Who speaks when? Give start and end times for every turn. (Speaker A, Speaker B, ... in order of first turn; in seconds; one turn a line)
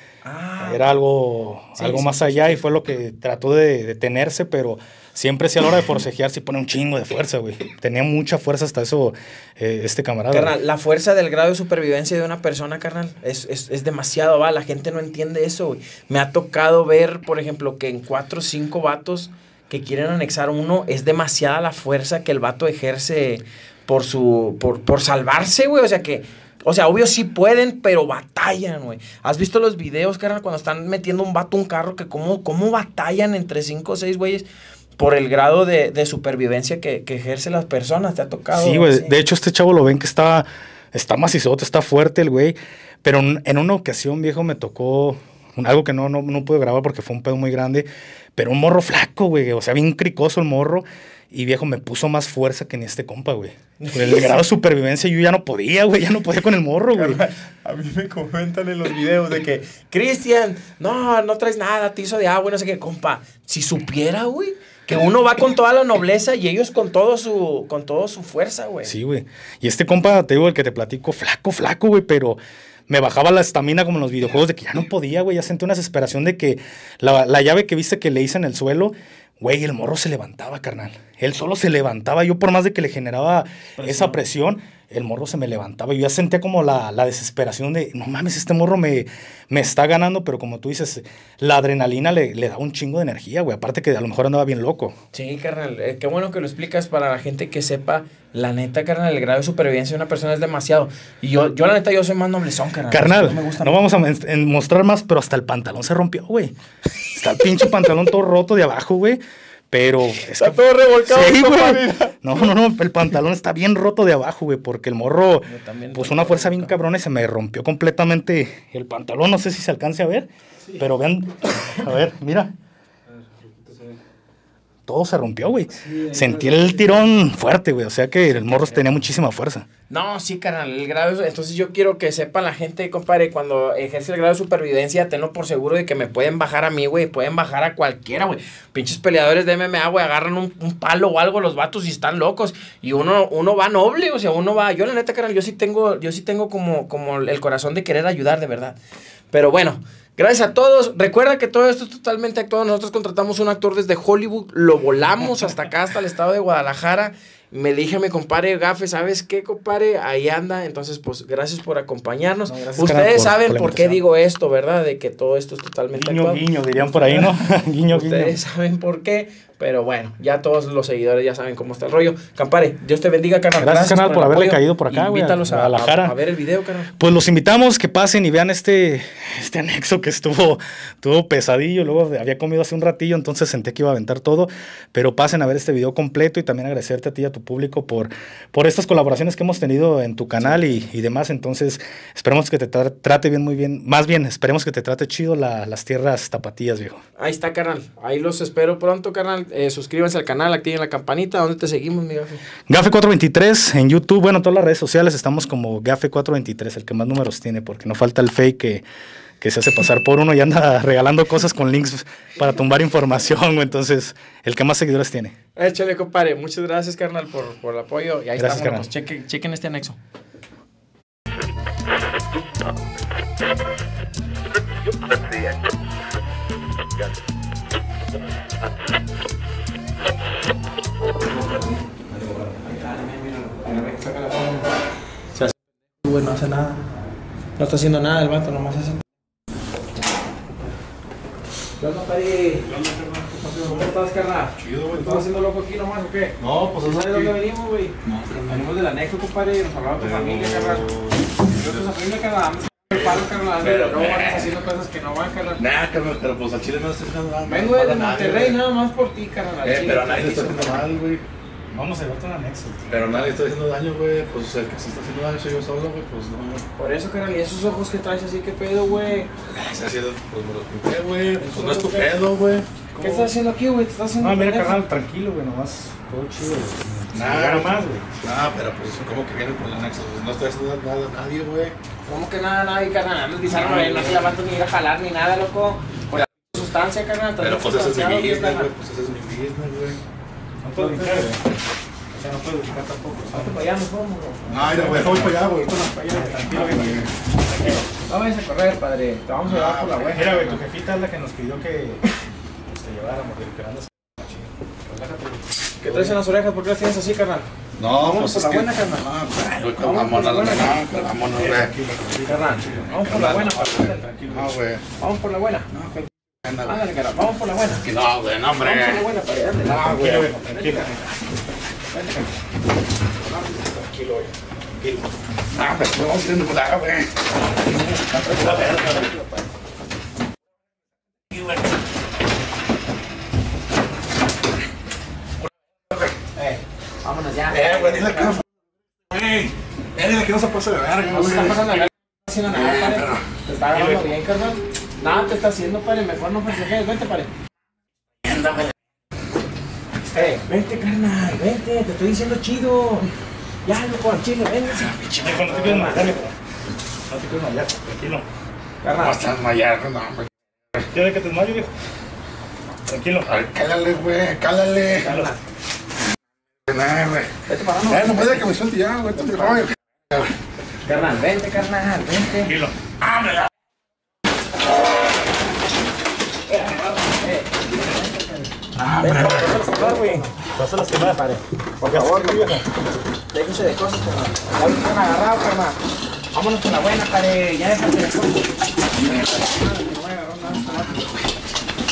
Speaker A: 0.2-0.9
Speaker B: 0.6-10.5
Speaker A: 1.8-2.6
Speaker A: 10.3-34.5
Speaker A: 35.0-39.2
Speaker B: 38.5-57.2
Speaker A: 53.8-54.4
Speaker A: 56.9-68.9
Speaker B: 68.8-94.9
Speaker A: 83.8-84.2
Speaker A: 95.1-103.8
Speaker B: 102.9-106.5
Speaker B: 107.1-122.5
Speaker A: 110.2-112.2
Speaker A: 115.4-116.7
Speaker B: 124.9-129.7
Speaker A: 125.8-126.6
Speaker A: 128.3-128.8
Speaker A: 129.9-148.8
Speaker A: 149.3-176.9
Speaker B: 162.5-164.0
Speaker B: 165.9-168.3
Speaker B: 173.6-176.1
Speaker B: 177.0-197.0
Speaker A: 190.4-190.8
Speaker A: 197.2-202.4
Speaker B: 202.7-208.8
Speaker B: 209.4-215.3
Speaker A: 215.6-220.0
Speaker B: 218.4-218.9
Speaker A: 231.3-231.8
Speaker B: 232.1-232.4
Speaker A: 232.5-234.7
Speaker A: 235.3-236.8
Speaker A: 237.6-239.0
Speaker A: 241.8-242.7
Speaker B: 242.7-243.6
Speaker A: 243.4-247.9
Speaker C: 244.6-245.2
Speaker C: 246.4-247.3
Speaker C: 248.0-248.7
Speaker A: 248.4-255.6
Speaker C: 250.0-251.1
Speaker C: 253.6-254.5
Speaker C: 255.6-258.6
Speaker A: 257.4-260.9
Speaker C: 259.6-261.2
Speaker B: 261.7-263.4
Speaker C: 262.9-266.6
Speaker A: 266.8-269.3
Speaker C: 269.5-273.1
Speaker A: 271.4-272.1
Speaker A: 273.0-274.8
Speaker B: 274.2-278.1
Speaker C: 277.1-281.7
Speaker A: 282.0-288.7
Speaker C: 283.6-284.2
Speaker C: 287.4-290.0
Speaker B: 290.6-291.4
Speaker A: 290.7-291.4
Speaker B: 292.1-293.6
Speaker A: 293.3-296.8
Speaker C: 294.5-295.9
Speaker B: 294.9-295.3
Speaker B: 296.1-297.9
Speaker C: 296.5-297.1
Speaker A: 298.0-300.6
Speaker C: 299.4-300.1
Speaker B: 300.1-302.1
Speaker B: 302.7-306.2
Speaker A: 305.8-309.1
Speaker C: 307.8-311.7
Speaker A: 309.8-310.8
Speaker B: 311.3-314.5
Speaker A: 312.2-314.1
Speaker C: 313.3-314.8
Speaker A: 315.0-316.1
Speaker C: 316.4-316.8
Speaker A: 316.6-317.9
Speaker C: 317.8-319.0
Speaker A: 318.6-321.1
Speaker C: 319.6-320.4
Speaker B: 319.7-321.0
Speaker A: 321.9-322.3
Speaker A: 323.2-324.3
Speaker C: 325.5-328.7
Speaker A: 328.1-329.4
Speaker B: 328.3-329.0
Speaker A: 336.3-338.4
Speaker C: 337.5-338.4
Speaker C: 339.1-341.8
Speaker A: 341.1-347.3
Speaker C: 342.5-343.2
Speaker C: 348.3-348.7
Speaker A: 350.1-353.1
Speaker A: 353.6-356.1
Speaker B: 355.1-356.3
Speaker B: 357.1-358.2
Speaker A: 358.8-359.3
Speaker C: 359.0-360.3
Speaker B: 360.8-361.7
Speaker B: 362.9-363.3
Speaker C: 363.3-365.1
Speaker A: 365.0-365.4
Speaker C: 366.7-367.3
Speaker A: 367.4-368.5
Speaker C: 367.9-370.3
Speaker A: 369.2-369.6
Speaker A: 370.8-372.5
Speaker B: 372.4-372.8
Speaker C: 373.0-373.4
Speaker A: 376.5-380.3
Speaker C: 378.8-379.5
Speaker B: 380.5-382.6
Speaker A: 381.8-382.5
Speaker A: 383.3-385.8
Speaker A: 386.3-388.5
Speaker A: 389.0-391.1